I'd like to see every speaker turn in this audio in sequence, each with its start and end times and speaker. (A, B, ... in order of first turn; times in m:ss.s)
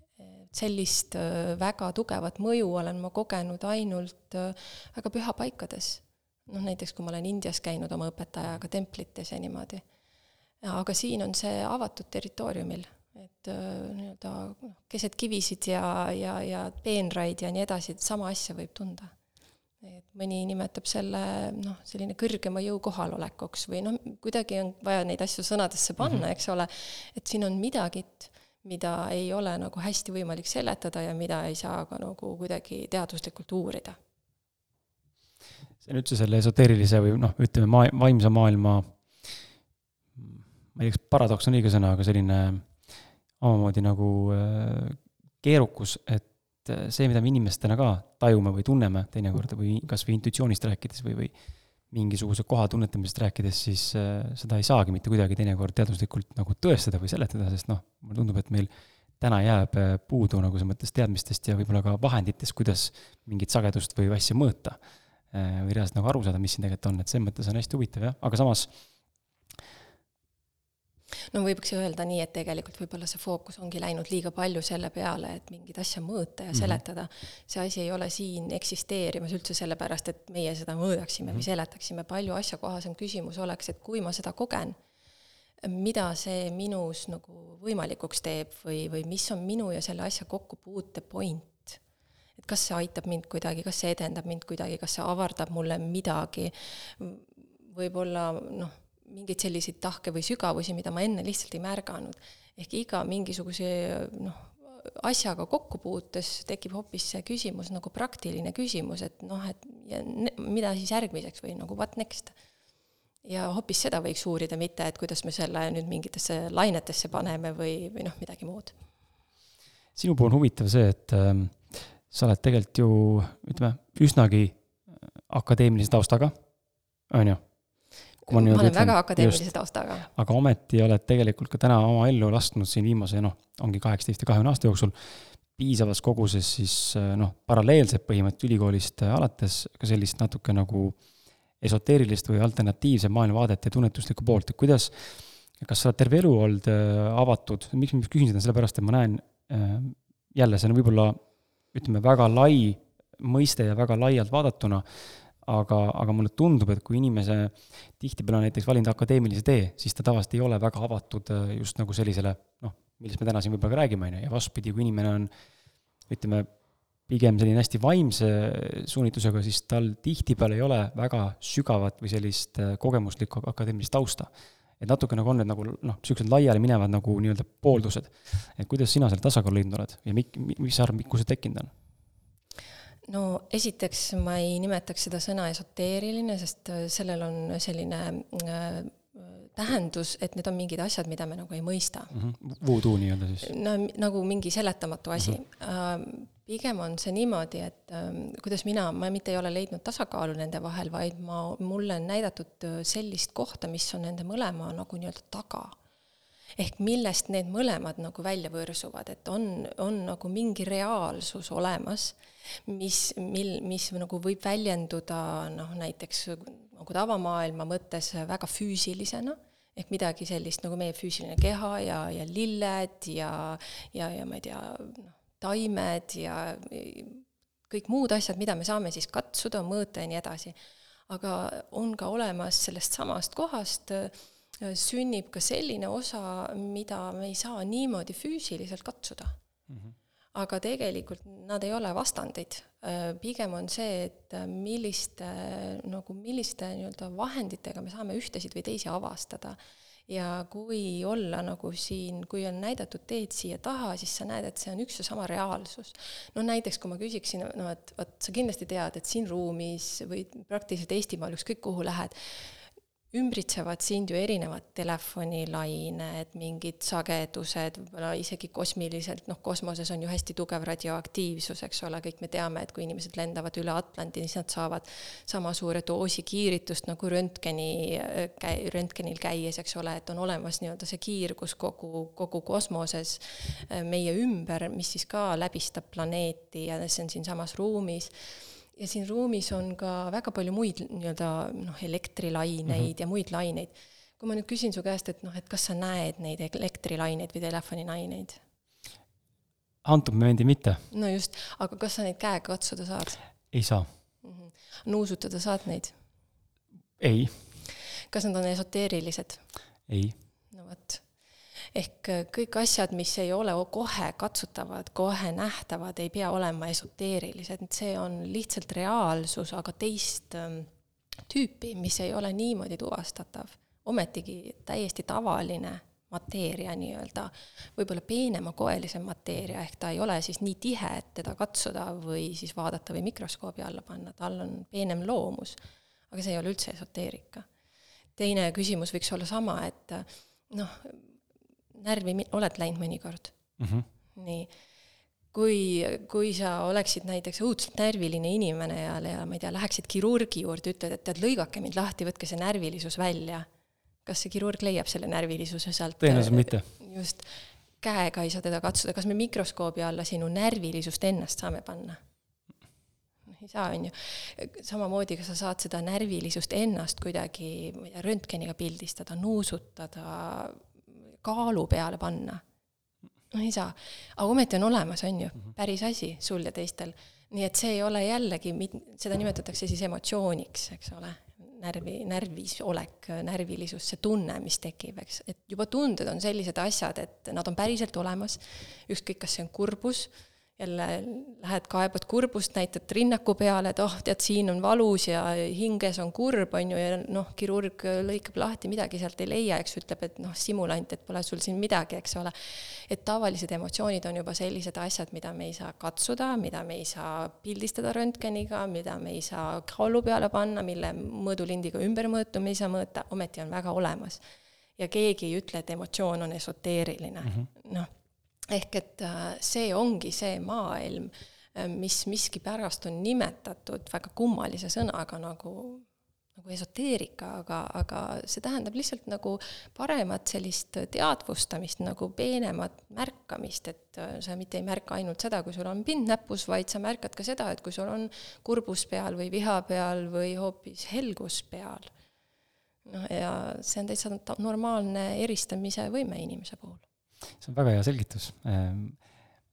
0:00.2-0:09.8 A
0:10.6-0:19.1 A
0:19.8-0:34.0 A
0:35.8-0:39.3 B
0:40.2-0:42.7 B
0:43.4-0:51.3 B
0:51.9-1:04.8 B
1:05.3-1:08.7 B
1:11.3-1:24.8 A
1:16.5-1:16.8 B
1:25.6-1:31.8 A
1:32.4-1:52.4 A
1:53.2-1:58.8 A
2:00.0-2:06.3 B
2:07.1-2:07.4 B
2:08.2-2:10.1 A
2:08.3-2:09.4 B
2:10.1-2:15.0 B
2:15.6-2:21.0 B
2:21.6-2:31.2 B
2:31.7-2:34.8 B
2:35.4-2:45.3 B
2:46.1-2:46.5 B
2:47.1-3:01.7 B
3:03.1-3:12.1 A
3:12.1-3:13.5 B
3:13.4-3:25.8 A
3:26.6-3:50.6 A
3:51.1-3:59.4 A
3:59.7-4:00.0 B
4:00.4-4:48.1 A
4:48.7-4:58.4 A
4:59.8-5:00.9 B
5:00.9-5:03.3 A
5:03.5-5:03.9 B
5:04.2-5:06.0 A
5:07.0-5:07.4 B
5:07.7-5:09.5 A
5:09.9-5:10.2 B
5:10.5-5:11.1 A
5:11.7-5:20.7 A
5:21.3-5:35.6 A
5:36.1-5:37.5 A
5:38.2-5:41.2 A
5:41.7-5:43.4 A
5:43.6-5:43.9 B
5:44.2-5:44.5 A
5:45.3-5:53.5 A
5:54.0-6:02.0 A
5:56.0-5:56.7 B
6:03.3-6:12.4 A
6:13.3-6:54.2 A
6:54.8-6:57.9 A
6:58.5-7:05.8 A
7:06.4-7:21.9 A
7:22.9-7:26.8 A
7:27.4-7:29.0 B